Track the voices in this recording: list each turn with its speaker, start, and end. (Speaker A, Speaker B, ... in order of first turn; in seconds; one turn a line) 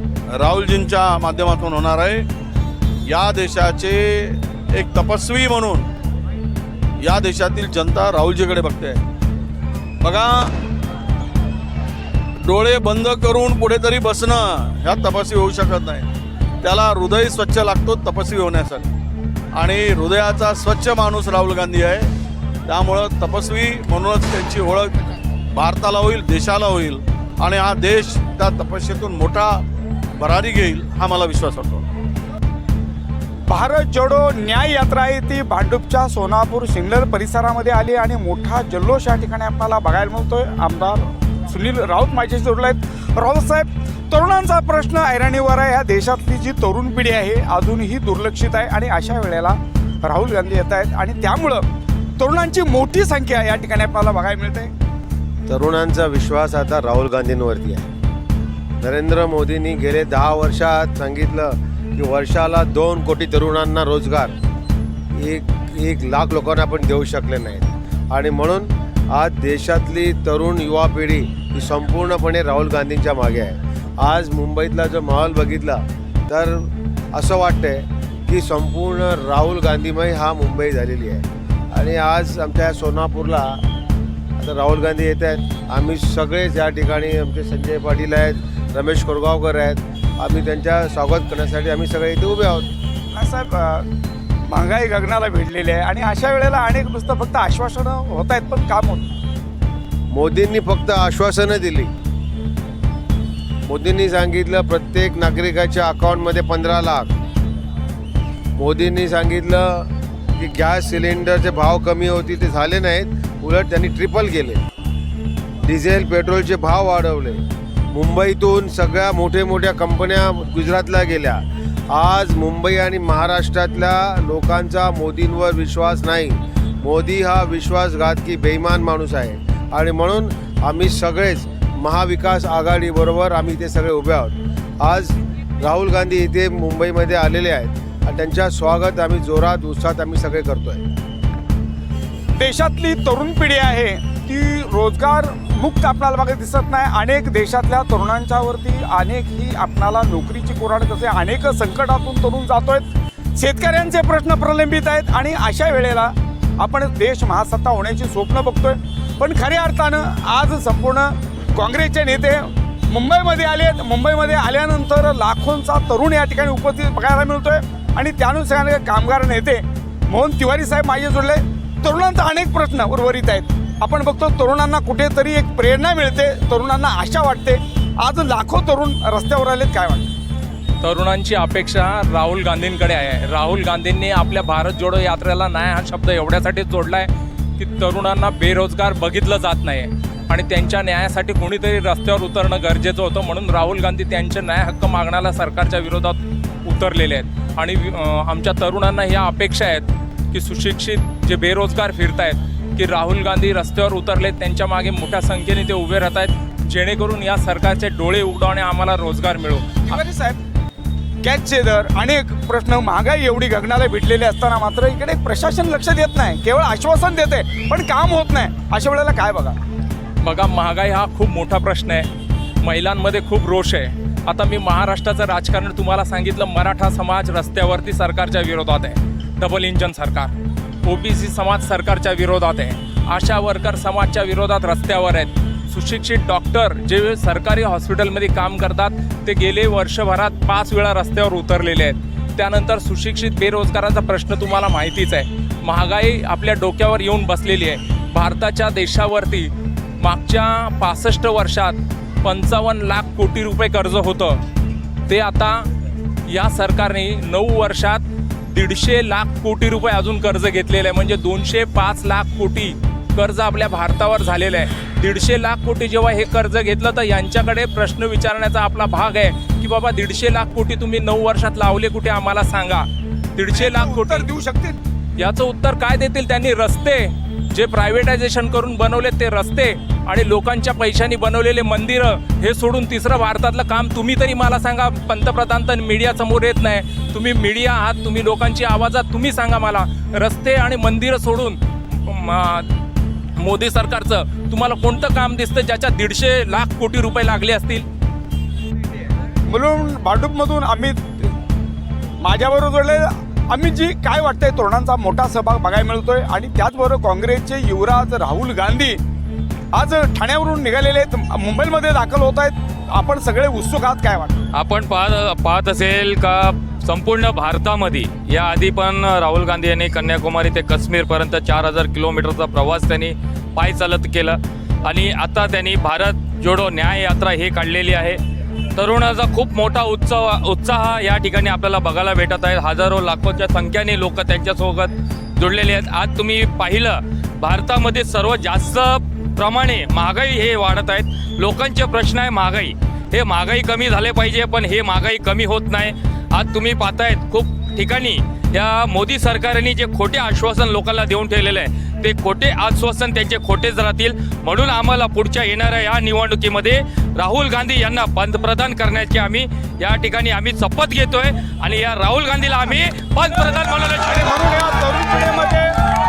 Speaker A: 0.3-2.3
Speaker A: 3.1-5.9
Speaker A: 7.0-9.0
Speaker A: 10.0-10.5
Speaker A: 12.4-16.1
Speaker A: 16.6-18.9
Speaker A: 19.5-22.1
Speaker A: 22.6-25.0
Speaker A: 25.5-29.6
Speaker A: 30.2-31.8
Speaker B: 33.5-51.6
Speaker B: 52.2-54.7
Speaker C: 55.5-57.9
Speaker C: 58.8-64.3
Speaker C: 65.1-83.6
Speaker C: 84.4-92.7
Speaker B: 93.1-93.8
Speaker B: 94.5-99.1
Speaker C: 100.1-101.9
Speaker C: 103.7-107.1
Speaker C: 108.5-114.6
Speaker C: 115.6-140.8
Speaker B: 142.3-180.1
Speaker D: 180.8-209.7
Speaker B: 209.8-210.4
Speaker B: 211.2-219.6
Speaker D: 220.2-222.1
Speaker D: 222.6-230.3
Speaker D: 230.8-254.4
Speaker D: 255.1-255.7
Speaker D: 256.3-274.3
Speaker B: 273.4-274.8
Speaker D: 275.2-292.8
Speaker D: 293.4-297.9
Speaker B: 299.4-301.3
Speaker B: 302.2-309.0
Speaker B: 309.7-314.4
Speaker E: 314.5-328.2
Speaker E: 328.7-364.3
Speaker B: 364.0-365.7